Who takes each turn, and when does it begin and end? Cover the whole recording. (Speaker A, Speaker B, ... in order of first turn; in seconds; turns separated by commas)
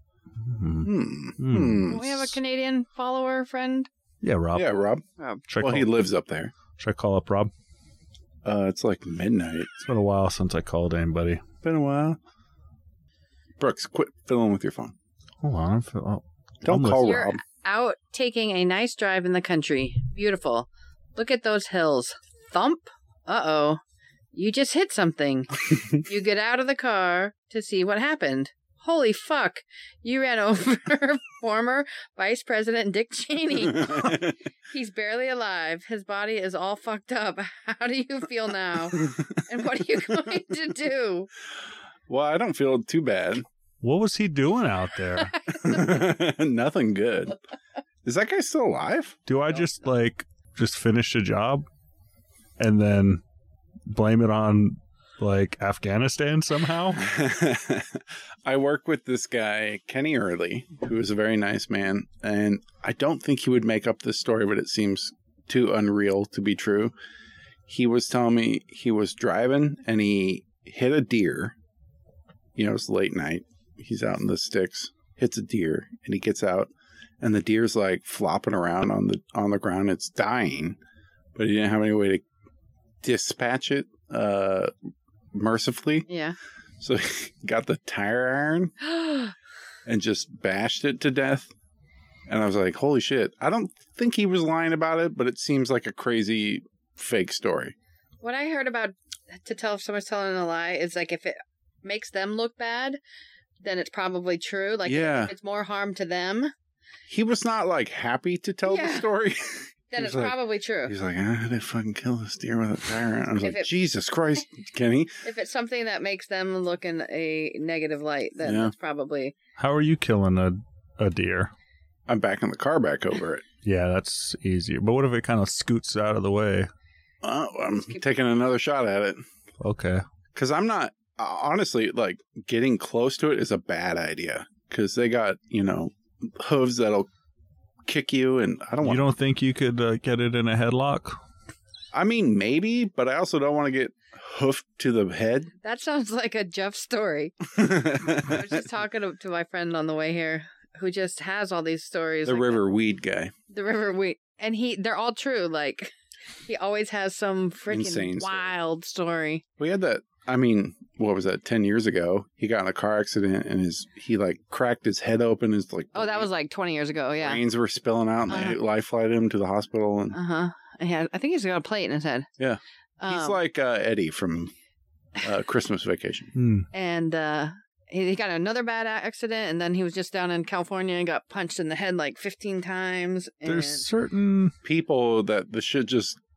Speaker A: 0.4-2.3, Speaker B: 0.8-2.1, Speaker C: 1.9-3.9, Speaker A: 4.2-4.7, Speaker B: 4.5-5.0, Speaker C: 5.2-5.5, Speaker A: 5.5-5.9, Speaker B: 5.6-6.5, Speaker A: 6.8-7.5, Speaker B: 8.4-9.8, Speaker A: 9.8-11.4, Speaker B: 11.6-12.2, Speaker B: 13.6-14.9, Speaker A: 15.4-17.2, Speaker B: 16.6-17.4, Speaker C: 17.0-23.8, Speaker C: 24.3-41.3, Speaker B: 33.7-34.4, Speaker B: 39.0-39.3, Speaker B: 42.1-43.5, Speaker A: 43.8-45.4, Speaker C: 45.4-45.8, Speaker B: 45.5-47.4, Speaker B: 48.0-49.6, Speaker A: 49.3-51.7, Speaker A: 52.6-53.2, Speaker A: 53.9-57.1, Speaker B: 56.9-66.9, Speaker B: 67.7-71.5, Speaker B: 72.6-76.7, Speaker B: 77.2-80.8, Speaker B: 81.4-82.2, Speaker B: 83.0-84.7, Speaker B: 85.3-86.1, Speaker C: 86.1-86.4, Speaker B: 86.8-88.7, Speaker C: 88.8-89.3, Speaker B: 89.9-91.5, Speaker B: 92.3-97.8, Speaker C: 98.2-103.0, Speaker C: 103.6-106.5, Speaker B: 104.8-105.3, Speaker B: 107.1-115.2, Speaker C: 108.7-109.1, Speaker C: 109.9-111.0, Speaker C: 113.4-113.7, Speaker C: 115.2-119.4, Speaker B: 118.4-118.7, Speaker A: 119.6-121.5, Speaker B: 122.1-123.5, Speaker A: 123.6-126.7, Speaker B: 127.2-129.2, Speaker A: 129.6-130.0, Speaker B: 130.3-137.1, Speaker B: 137.9-139.1, Speaker A: 138.8-141.2, Speaker B: 141.9-145.5, Speaker C: 145.6-152.6, Speaker B: 147.5-148.6, Speaker B: 152.3-153.3, Speaker C: 153.5-155.9, Speaker C: 156.5-159.4, Speaker B: 157.7-158.6, Speaker B: 159.6-166.3, Speaker C: 165.9-167.4, Speaker B: 167.2-170.2, Speaker C: 168.3-168.6, Speaker C: 170.1-172.3, Speaker B: 172.4-174.5, Speaker C: 173.0-173.4, Speaker B: 175.2-176.3, Speaker A: 176.3-176.7, Speaker C: 176.7-183.8, Speaker A: 183.4-184.5, Speaker B: 184.6-186.2